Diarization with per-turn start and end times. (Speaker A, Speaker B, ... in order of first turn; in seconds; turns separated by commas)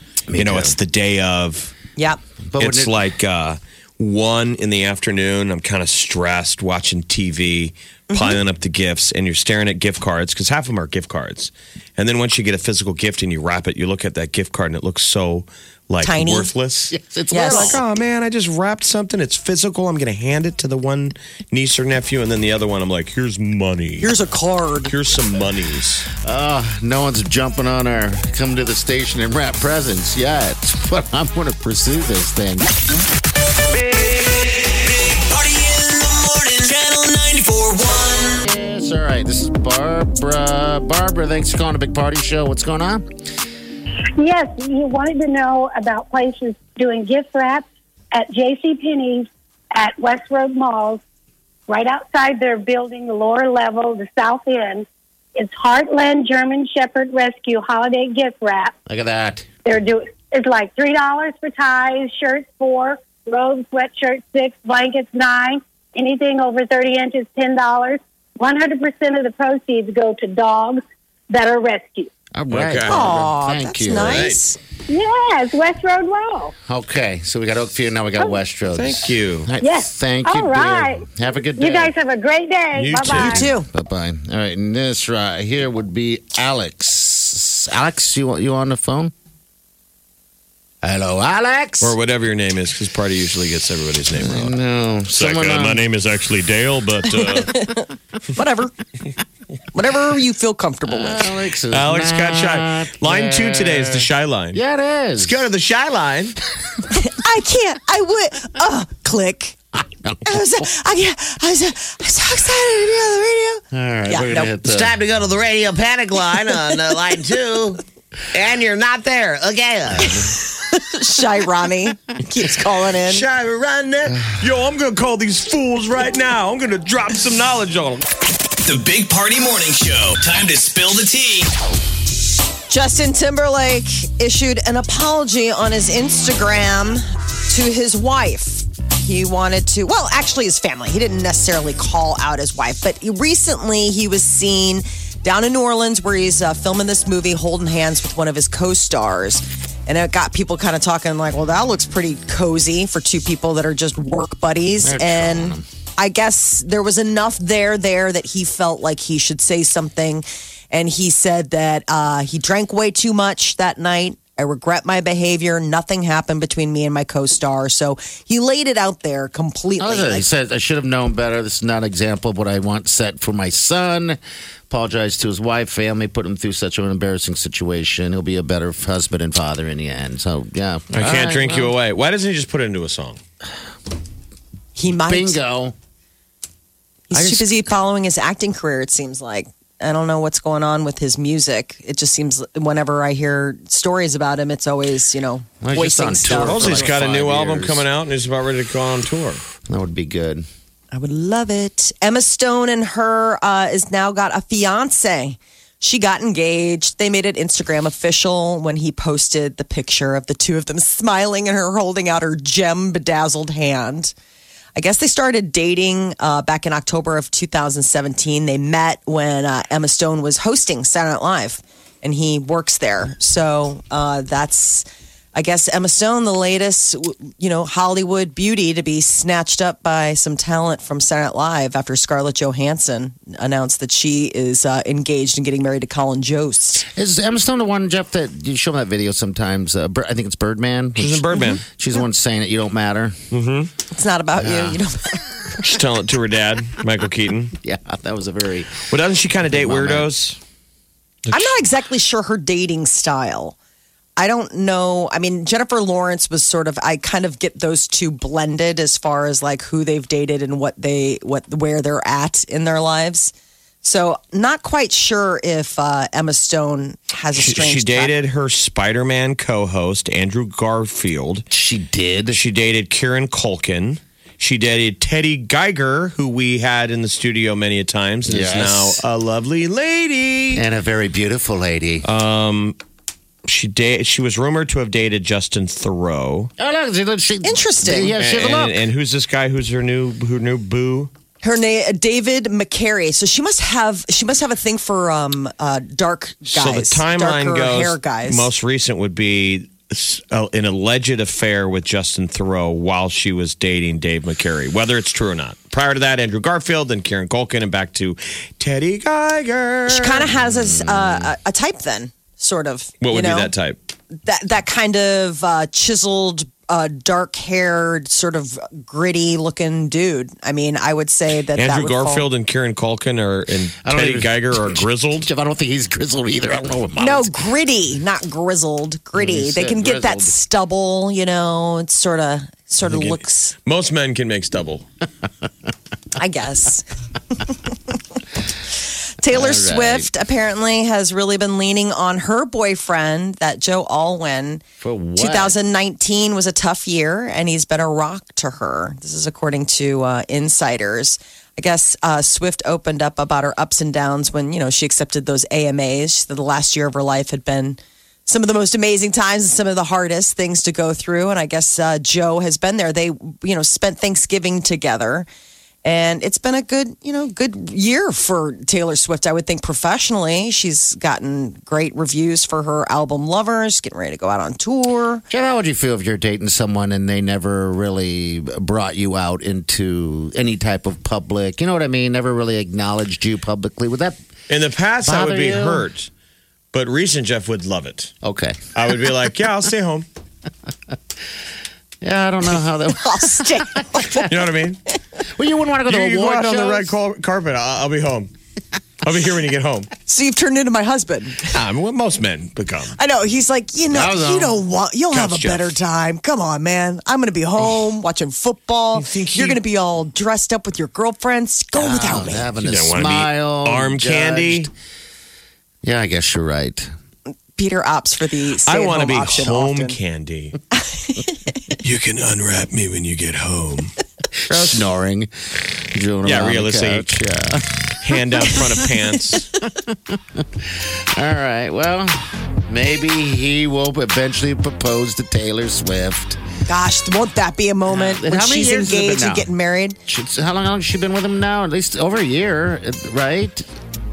Speaker A: 0.3-0.8, Speaker B: 0.3-1.7, Speaker A: 2.5-3.0, Speaker B: 2.6-24.2, Speaker C: 8.1-8.4, Speaker C: 16.0-16.5, Speaker A: 16.9-17.8, Speaker C: 17.3-17.8, Speaker C: 24.0-24.9, Speaker B: 24.8-26.1, Speaker A: 26.2-32.7, Speaker D: 34.0-38.4, Speaker A: 38.4-43.0, Speaker E: 44.2-51.0, Speaker E: 51.7-58.7, Speaker A: 58.9-59.5, Speaker E: 59.6-72.1, Speaker A: 72.3-74.3, Speaker B: 72.5-73.0, Speaker C: 72.8-74.6, Speaker B: 74.0-74.4, Speaker E: 74.9-76.5, Speaker A: 76.7-81.9, Speaker B: 78.7-79.5, Speaker E: 79.6-83.4, Speaker B: 82.7-83.5, Speaker A: 83.1-89.1, Speaker C: 83.3-83.7, Speaker A: 90.8-92.0, Speaker B: 91.8-94.6, Speaker A: 94.2-95.8, Speaker B: 95.1-97.7, Speaker C: 97.2-97.8, Speaker C: 98.3-98.7, Speaker C: 99.7-101.3, Speaker A: 100.9-105.4, Speaker B: 101.7-104.6, Speaker B: 105.2-106.4, Speaker C: 106.9-109.6, Speaker C: 110.2-114.5, Speaker A: 113.7-115.0, Speaker F: 114.6-117.8, Speaker F: 118.3-120.1, Speaker C: 120.0-123.3, Speaker B: 123.1-128.0, Speaker D: 128.6-131.5, Speaker C: 132.7-170.2, Speaker A: 154.8-155.7, Speaker A: 169.8-174.2, Speaker A: 174.7-181.7, Speaker B: 180.9-183.2, Speaker C: 184.8-185.4, Speaker A: 185.1-185.7, Speaker C: 187.1-196.9, Speaker A: 187.1-187.5, Speaker A: 195.6-197.8, Speaker B: 196.3-199.4, Speaker A: 199.7-200.4, Speaker C: 200.9-214.1, Speaker C: 214.7-236.8, Speaker A: 236.9-243.2, Speaker B: 241.0-241.6, Speaker B: 243.3-243.7, Speaker C: 243.9-245.3, Speaker A: 244.4-244.8, Speaker B: 245.6-247.5, Speaker A: 247.6-248.9, Speaker B: 248.9-250.4, Speaker A: 249.5-250.1, Speaker B: 251.2-251.6, Speaker C: 251.3-253.6, Speaker C: 254.2-268.1, Speaker B: 267.4-271.4, Speaker A: 271.5-272.4, Speaker B: 272.3-280.6, Speaker A: 278.2-279.0, Speaker A: 280.5-282.1, Speaker B: 282.0-282.8, Speaker B: 283.4-286.5, Speaker A: 286.6-288.8, Speaker C: 287.4-288.2, Speaker B: 288.2-291.1, Speaker C: 291.4-298.5, Speaker B: 296.5-310.2, Speaker C: 309.9-313.5, Speaker A: 310.3-311.3, Speaker B: 313.0-313.8, Speaker C: 314.2-322.3, Speaker B: 321.5-325.3, Speaker A: 323.8-327.5, Speaker C: 327.0-333.6, Speaker A: 329.1-330.4, Speaker B: 332.8-334.8, Speaker C: 336.1-336.9, Speaker C: 339.2-344.6, Speaker A: 339.3-340.1, Speaker A: 344.8-345.5, Speaker C: 345.1-365.3, Speaker C: 365.8-375.2, Speaker A: 375.3-384.2, Speaker B: 384.5-386.1, Speaker A: 385.0-385.9, Speaker B: 386.7-388.1, Speaker A: 388.2-388.6, Speaker B: 388.7-390.1, Speaker A: 392.0-394.2, Speaker C: 392.9-394.3, Speaker B: 394.3-394.8, Speaker A: 395.2-396.9, Speaker B: 395.9-398.3, Speaker B: 399.0-399.9, Speaker C: 400.1-401.6, Speaker B: 401.5-402.9, Speaker C: 402.9-412.5, Speaker A: 403.9-404.6, Speaker B: 405.1-405.7, Speaker B: 408.9-409.6, Speaker A: 411.7-414.7, Speaker B: 412.6-414.7, Speaker A: 415.8-416.9, Speaker C: 417.5-420.0, Speaker B: 418.6-420.6, Speaker C: 420.7-421.4, Speaker B: 421.8-423.9, Speaker A: 424.4-427.8, Speaker B: 424.5-424.9, Speaker B: 426.2-427.2, Speaker B: 428.0-429.5, Speaker A: 428.3-428.9, Speaker A: 429.7-436.4, Speaker C: 436.7-440.0, Speaker A: 437.9-439.5, Speaker A: 440.1-443.6